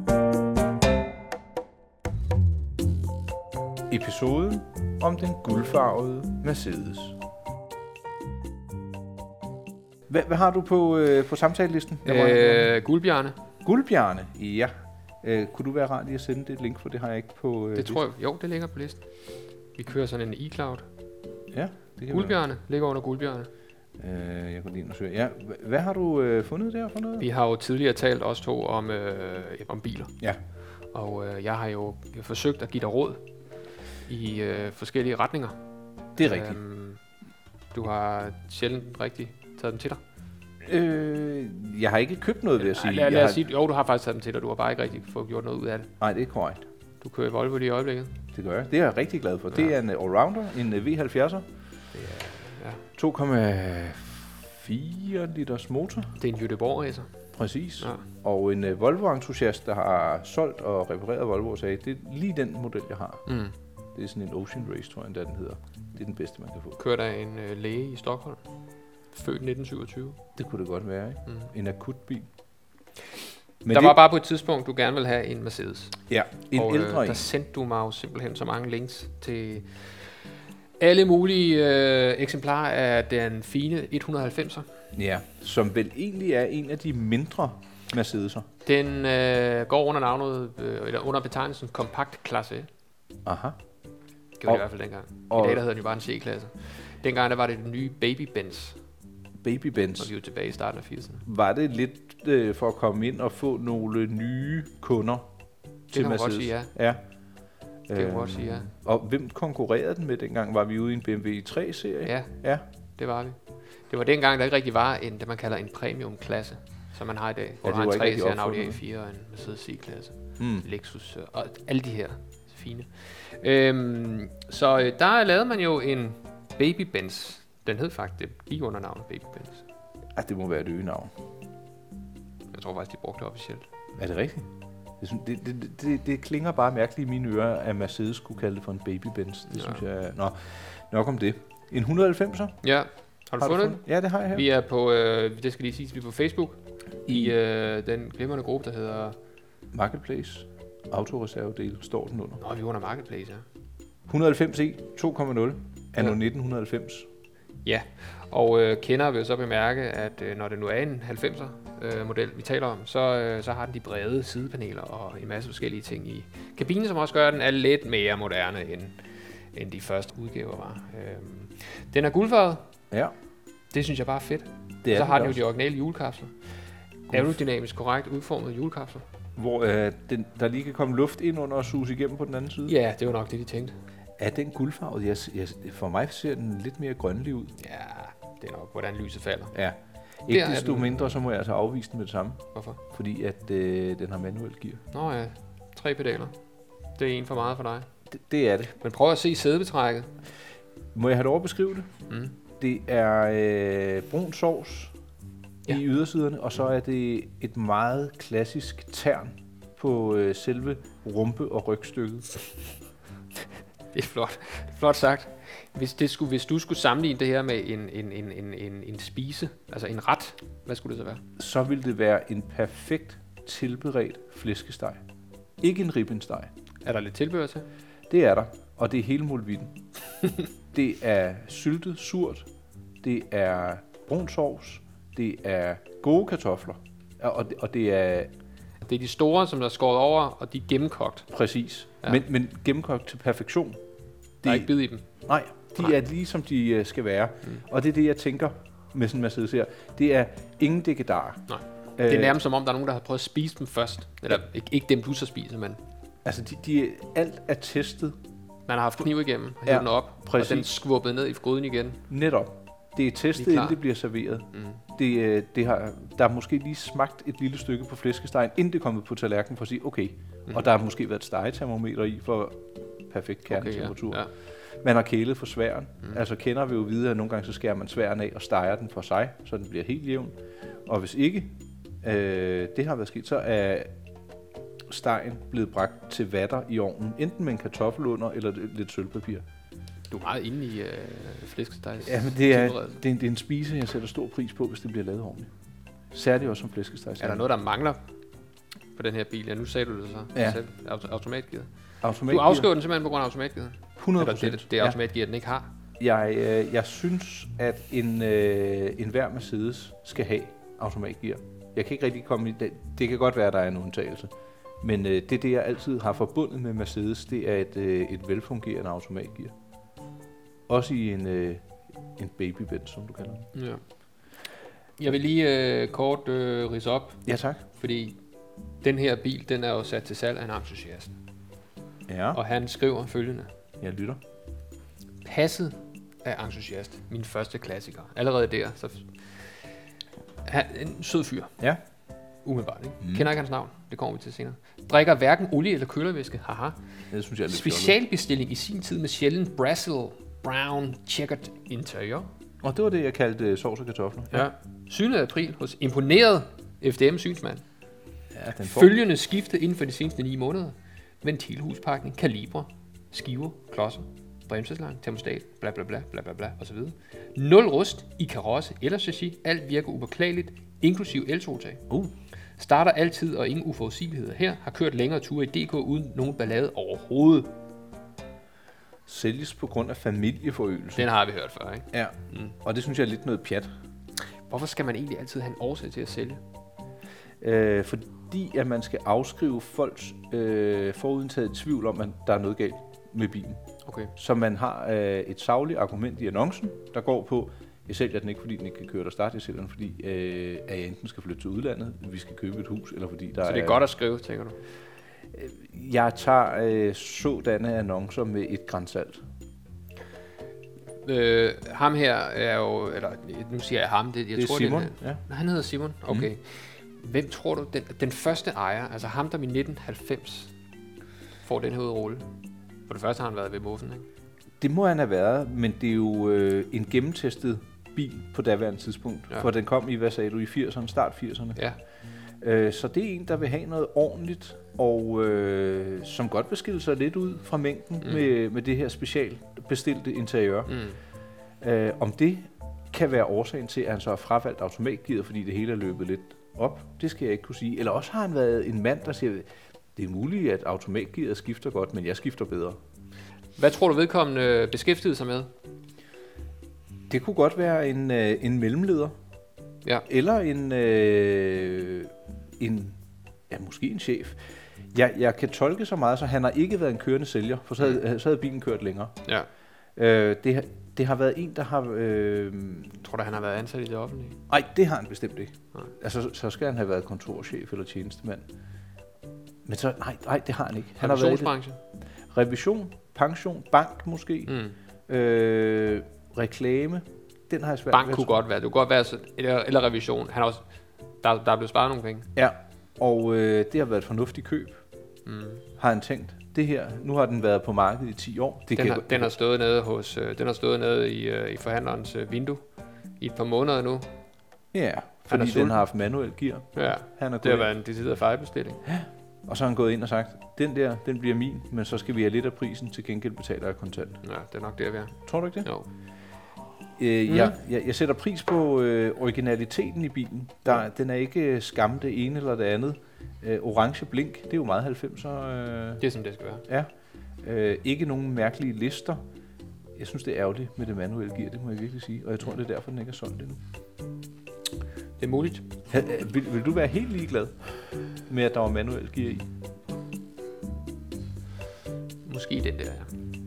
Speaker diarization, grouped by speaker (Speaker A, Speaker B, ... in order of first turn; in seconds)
Speaker A: 3.9-7.2, 10.1-12.7, 13.6-14.7, 15.2-18.0, 21.5-22.4, 24.0-27.2, 36.2-36.6, 40.6-43.4, 46.0-46.6, 48.3-51.4, 53.0-56.1, 57.3-63.3, 63.9-66.8, 70.4-72.3, 73.6-74.0, 76.1-77.3, 84.9-88.5, 93.2-93.6, 95.3-95.6, 99.4-100.1, 101.2-105.3, 105.9-107.0, 107.9-112.6, 117.6-118.8, 120.4-120.7, 130.1-131.1, 134.0-134.5, 135.0-142.6, 143.4-144.4, 147.1-147.3, 149.7-152.4, 154.1-157.1, 174.8-175.4, 177.1-177.4, 179.4-182.7, 184.2-187.6, 189.5-192.4, 192.9-194.8, 198.1-198.7, 200.9-201.9, 202.6-204.9, 205.7-212.4, 221.4-225.0, 225.6-226.5, 228.1-229.7, 230.7-232.5, 233.0-238.3, 241.3-243.8, 244.4-251.4, 252.0-252.4, 256.2-258.1, 259.6-260.8, 262.1-280.3, 280.9-283.9, 284.9-289.4, 292.0-295.5, 296.1-297.4, 300.3-300.6, 302.0-302.7, 304.0-305.0, 306.0-319.5, 320.7-323.5, 327.2-327.6, 332.1-332.4, 333.8-334.2, 343.0-343.3, 347.1-348.0, 352.6-354.5, 358.3-359.0, 379.1-381.1, 381.9-383.7, 387.4-393.6, 394.1-403.9, 405.3-409.2, 414.3-415.2, 424.6-431.6, 432.4-440.7, 441.6-452.8, 457.1-459.1, 460.1-463.0, 463.5-464.4, 464.9-469.1, 469.9-473.0, 474.5-478.4, 479.6-481.6, 482.3-484.5, 485.1-488.4, 492.4-494.8, 495.8-499.3, 504.7-507.7, 508.9-514.2, 515.2-515.7, 517.0-526.0, 527.4-529.2, 530.0-533.6, 535.9-539.5
Speaker B: 12.0-13.3, 17.8-19.1, 19.7-20.9, 22.1-23.5, 27.2-30.1, 30.9-33.2, 34.0-35.6, 36.2-37.0, 37.7-40.0, 42.6-45.9, 47.0-48.1, 51.9-52.8, 56.2-57.1, 57.8-58.0, 63.2-63.5, 66.8-68.4, 69.1-70.2, 71.2-71.5, 73.7-76.0, 76.5-80.3, 80.8-84.7, 88.6-92.7, 94.4-98.8, 100.0-101.2, 105.9-106.7, 107.9-108.7, 112.0-112.3, 113.0-113.4, 113.9-129.6, 132.5-133.7, 139.5-139.8, 142.6-149.2, 152.4-153.4, 157.6-172.7, 173.7-176.3, 177.1-179.0, 182.7-183.7, 187.6-189.5, 190.3-191.1, 192.5-192.8, 194.9-196.3, 196.9-197.8, 198.7-200.1, 202.1-202.3, 213.9-221.2, 226.8-227.7, 238.8-241.3, 244.4-245.1, 251.5-255.8, 258.7-262.0, 263.3-263.8, 264.5-264.8, 273.5-274.3, 290.1-293.0, 297.2-298.0, 298.9-301.7, 302.2-305.7, 323.5-323.8, 325.0-328.2, 328.8-331.1, 332.3-333.5, 335.2-339.6, 340.4-341.5, 342.4-346.8, 347.5-352.3, 354.3-357.6, 358.6-371.8, 372.6-377.5, 380.9-382.5, 384.5-386.4, 393.9-394.1, 403.4-404.6, 411.0-420.5, 421.4-422.3, 422.9-424.1, 440.7-441.0, 453.6-455.5, 473.0-474.4, 480.9-481.8, 484.5-484.8, 487.9-490.6, 491.2-492.3, 495.2-495.6, 498.7-502.6, 503.2-504.1, 505.3-505.8, 506.7-508.8, 514.2-515.9, 517.3-517.6, 526.0-526.6, 535.2-535.6, 542.2-543.1